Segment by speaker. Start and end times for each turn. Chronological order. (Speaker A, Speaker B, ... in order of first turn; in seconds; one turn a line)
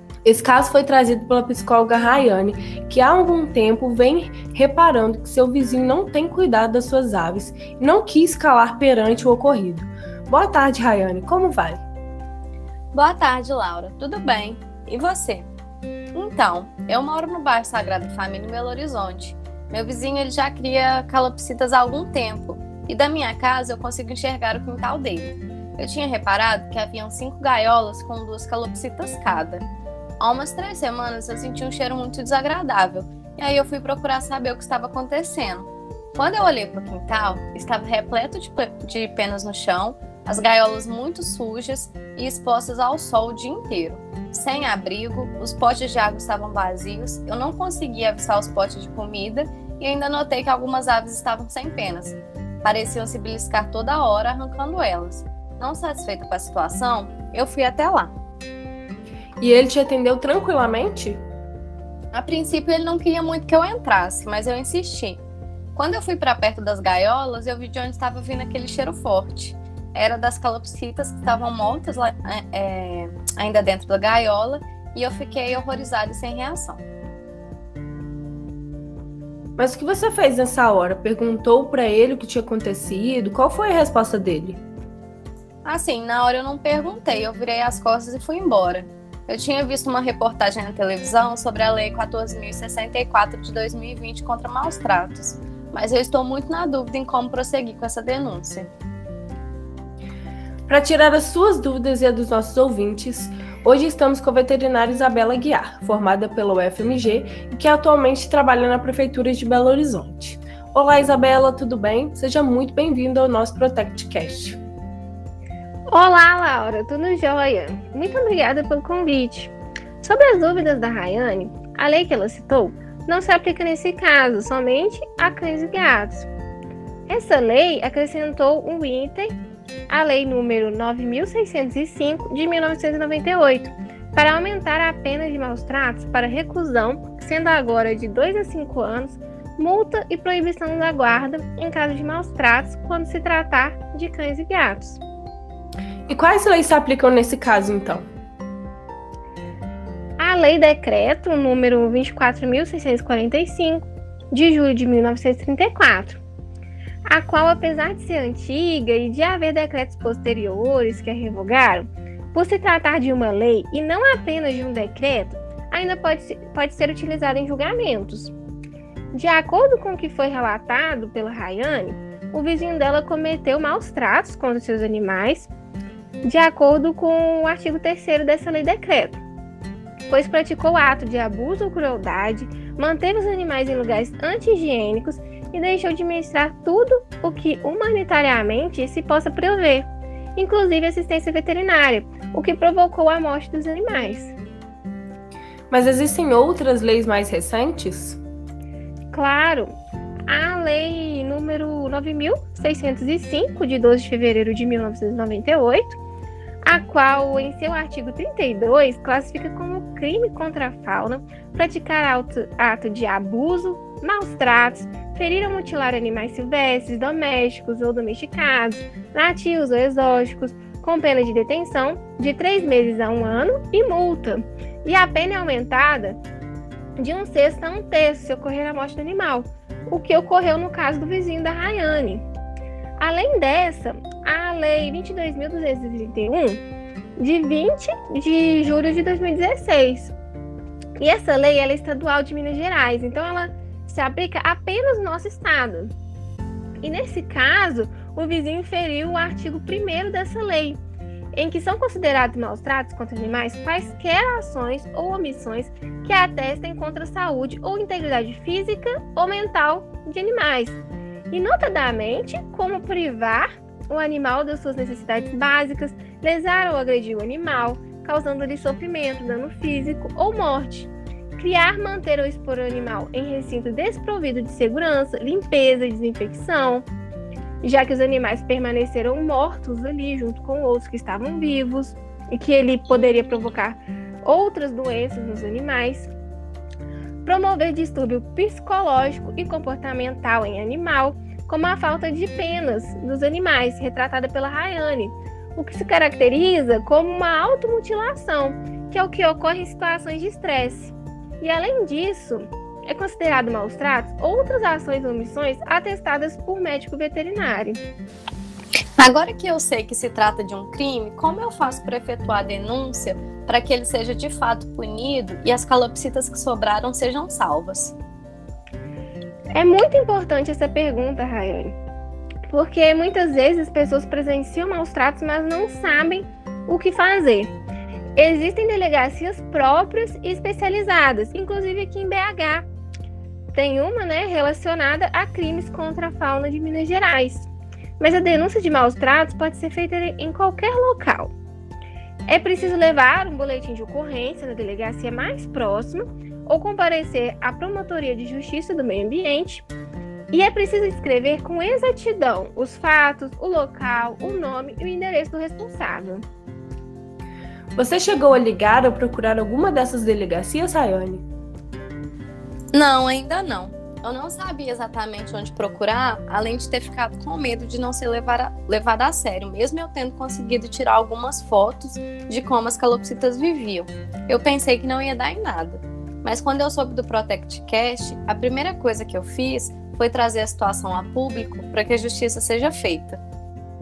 Speaker A: 0.2-11.8
Speaker B: 12.9-15.5
Speaker B: 16.1-29.6
Speaker B: 30.2-58.1
Speaker A: 59.4-61.2
Speaker B: 62.1-65.2
Speaker B: 65.7-76.8
Speaker A: 79.6-84.6
Speaker B: 85.7-98.7
Speaker A: 100.7-114.6
Speaker C: 115.9-126.3
Speaker C: 127.1-129.4
Speaker C: 129.9-145.0
Speaker A: 146.1-148.1
Speaker C: 150.2-156.2
Speaker C: 157.1-168.3
Speaker C: 169.1-175.5
Speaker C: 176.2-179.2
Speaker C: 180.1-194.3
Speaker A: 195.7-198.2
Speaker C: 199.1-199.7
Speaker C: 200.3-206.0
Speaker C: 206.7-226.2
Speaker C: 227.0-232.2
Speaker C: 233.0-236.6
Speaker C: 237.2-240.1
Speaker C: 241.0-245.9
Speaker C: 246.8-250.8
Speaker C: 251.3-260.8
Speaker C: 261.3-276.9
Speaker C: 277.6-286.1
Speaker C: 287.2-307.8
Speaker B: 309.0-317.9
Speaker C: 319.6-321.8
Speaker C: 322.5-327.5
Speaker C: 328.2-332.7
Speaker C: 333.5-337.5
Speaker C: 338.0-341.3
Speaker C: 342.3-349.7
Speaker C: 350.3-356.2
Speaker A: 357.8-361.2
Speaker B: 362.7-383.2